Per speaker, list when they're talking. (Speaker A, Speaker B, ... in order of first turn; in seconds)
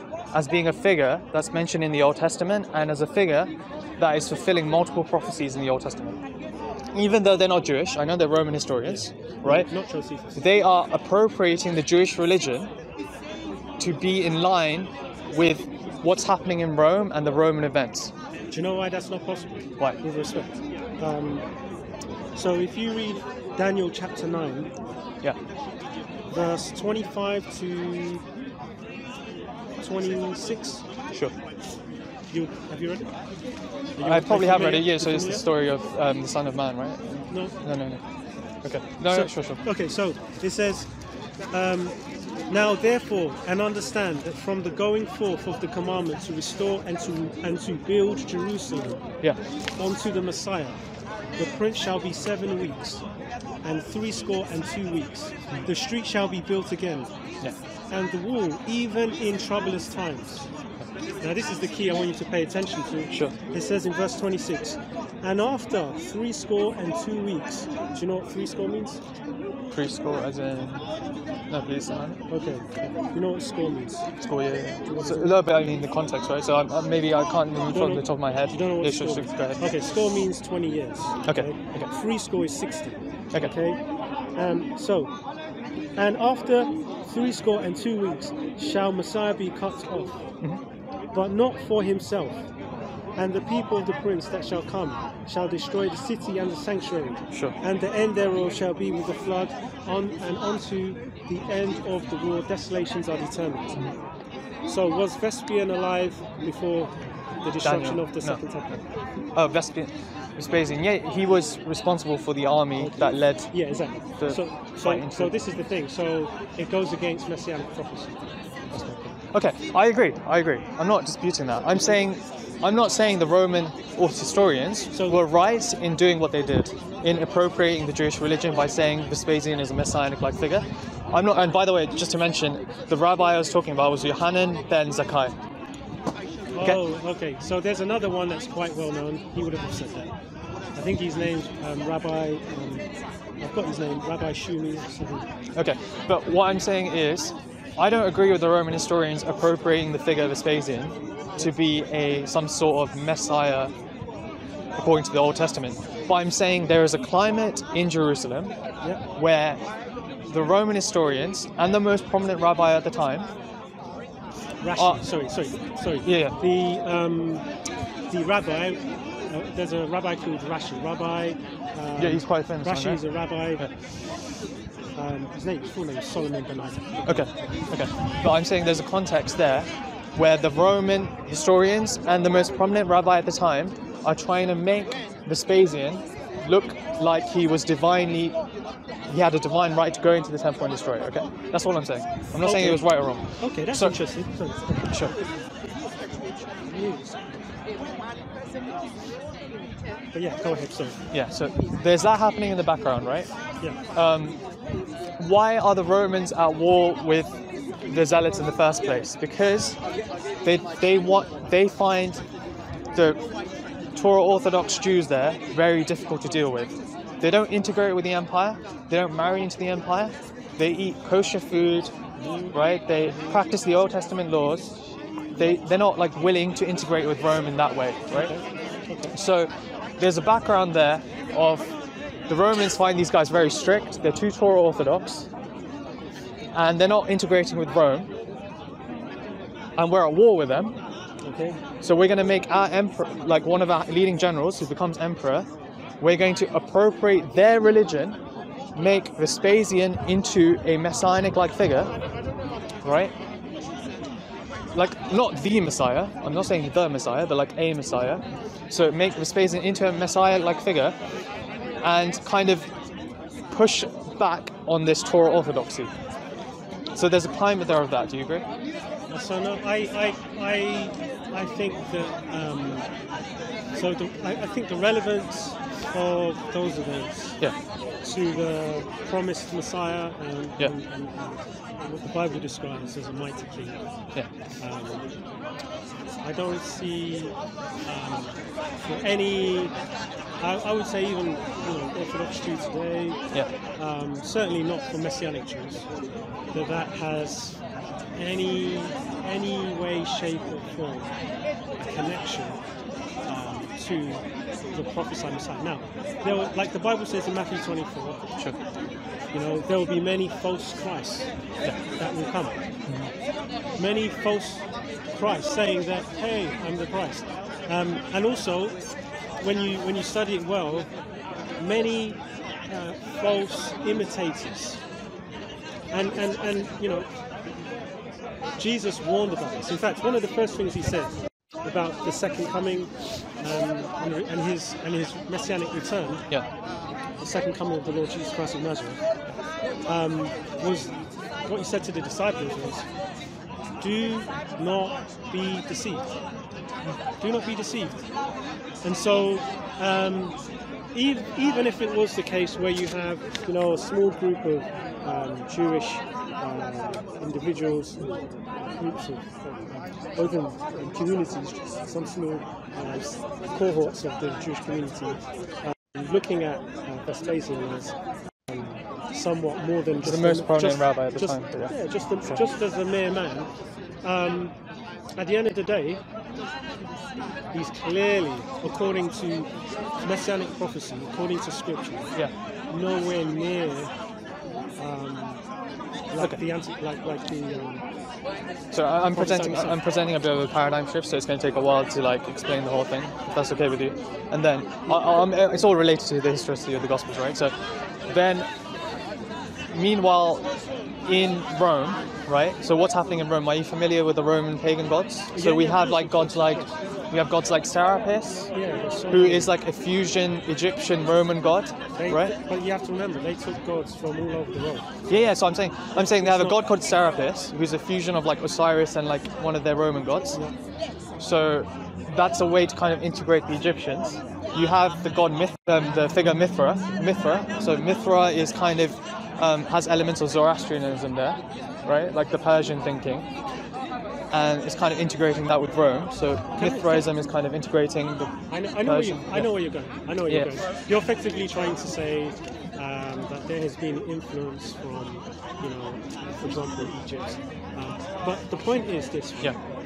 Speaker A: 0.3-6.2, 6.9-9.7, 10.3-12.7, 13.8-18.1, 34.0-38.0, 38.6-39.6, 69.7-70.8, 71.5-72.2, 74.2-79.8, 81.2-81.9, 107.6-108.4, 109.3-113.5, 114.2-115.3, 119.3-135.3, 145.5-153.7, 154.8-158.5, 159.1-159.6, 160.3-163.3, 166.0-166.3, 172.0-173.0, 177.1-188.3, 189.1-194.0, 201.1-203.3, 203.9-204.4, 205.2-207.4, 207.9-209.8, 210.4-212.2, 212.9-213.2, 213.9-221.9, 222.5-224.8, 225.4-228.3, 229.1-231.7, 232.3-235.3, 236.5-238.1, 239.8-240.8, 241.8-245.5, 246.0-248.2, 248.7-251.9, 252.8-253.1, 254.7-260.9, 261.8-262.7, 263.5-265.9, 266.9-268.4, 312.9-313.1, 370.0-371.7, 388.7-398.5, 399.7-400.5, 401.1-408.5, 409.1-412.3, 415.1-420.4, 421.2-433.2, 434.3-439.5
Speaker B: 9.4-10.4, 18.5-21.4, 22.3-24.7, 26.3-28.2, 29.8-30.8, 32.3-33.1, 34.0-35.4, 37.3-37.6, 39.1-40.9, 41.5-42.0, 42.5-49.1, 49.8-50.8, 51.4-53.0, 53.6-57.1, 57.9-60.5, 61.2-69.0, 72.3-74.1, 74.8-75.4, 77.7-83.8, 84.4-85.1, 86.0-90.2, 91.1-92.5, 93.2-103.9, 104.7-108.8, 112.8-119.1, 124.9-125.2, 136.5-140.1, 140.7-142.8, 143.4-145.3, 164.6-167.4, 168.1-173.7, 174.9-177.4, 192.4-192.8, 193.4-195.3, 196.6-197.4, 200.1-201.0, 222.2-222.5, 228.1-229.1, 241.2-241.6, 269.1-272.9, 273.7-277.4, 278.0-283.8, 284.6-285.0, 286.2-287.3, 287.9-289.7, 290.4-295.9, 296.5-297.6, 298.1-301.1, 301.8-302.6, 303.3-308.2, 309.3-311.3, 311.8-312.6, 313.8-318.8, 319.4-320.9, 321.6-324.8, 325.9-327.1, 328.6-336.3, 337.2-339.0, 339.9-340.9, 341.5-342.8, 343.8-346.1, 347.2-348.0, 348.8-350.4, 350.9-358.0, 358.6-367.9, 368.5-373.5, 374.0-374.5, 375.2-376.0, 377.5-379.5, 380.0-382.1, 382.7-383.9, 384.8-385.4, 386.1-387.8, 389.1-389.8, 405.3-406.7, 408.5-409.5, 412.0-415.0, 415.9-416.6, 436.6-437.1, 438.5-449.6